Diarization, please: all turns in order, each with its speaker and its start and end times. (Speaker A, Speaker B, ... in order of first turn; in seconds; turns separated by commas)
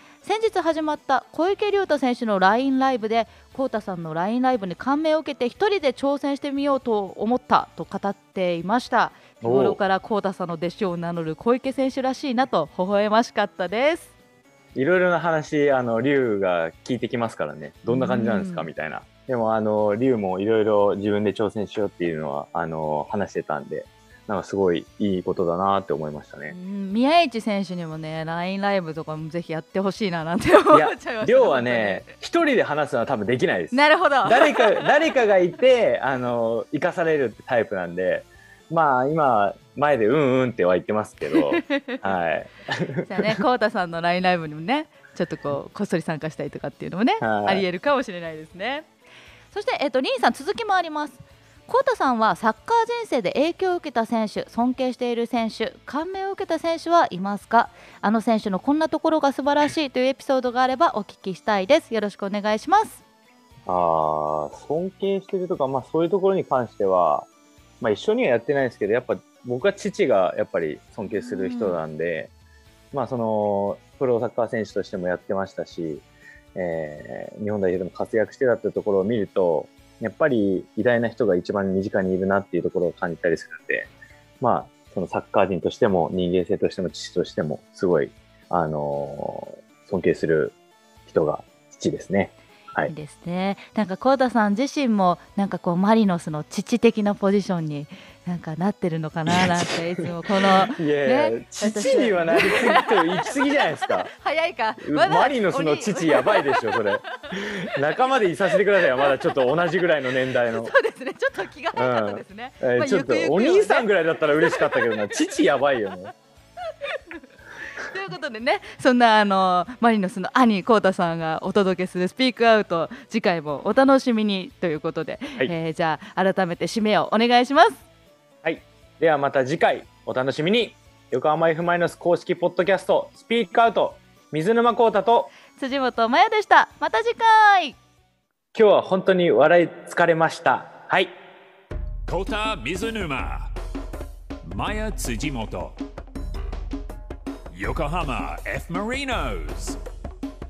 Speaker A: 0.2-14.1, Speaker B: 9.4-9.8, Speaker B: 14.7-26.6, Speaker A: 17.9-18.7, Speaker A: 26.5-32.1, Speaker B: 30.7-43.3, Speaker A: 33.7-35.0, Speaker A: 41.3-42.0, Speaker A: 43.0-48.9, Speaker B: 47.2-47.6, Speaker A: 49.5-63.0, Speaker B: 63.6-67.3, Speaker B: 67.8-72.3, Speaker A: 71.0-71.8, Speaker B: 72.9-76.0, Speaker B: 76.5-83.9, Speaker B: 84.4-90.5, Speaker B: 91.0-92.9, Speaker A: 92.8-107.3, Speaker B: 99.3-99.8, Speaker B: 100.6-104.1, Speaker B: 104.8-110.7, Speaker A: 108.7-109.3, Speaker A: 110.3-115.3, Speaker B: 111.7-116.1, Speaker A: 116.8-127.8, Speaker B: 128.4-135.3, Speaker A: 135.5-137.8, Speaker B: 138.5-141.2, Speaker C: 142.1-143.5, Speaker C: 144.4-145.8, Speaker C: 147.5-149.8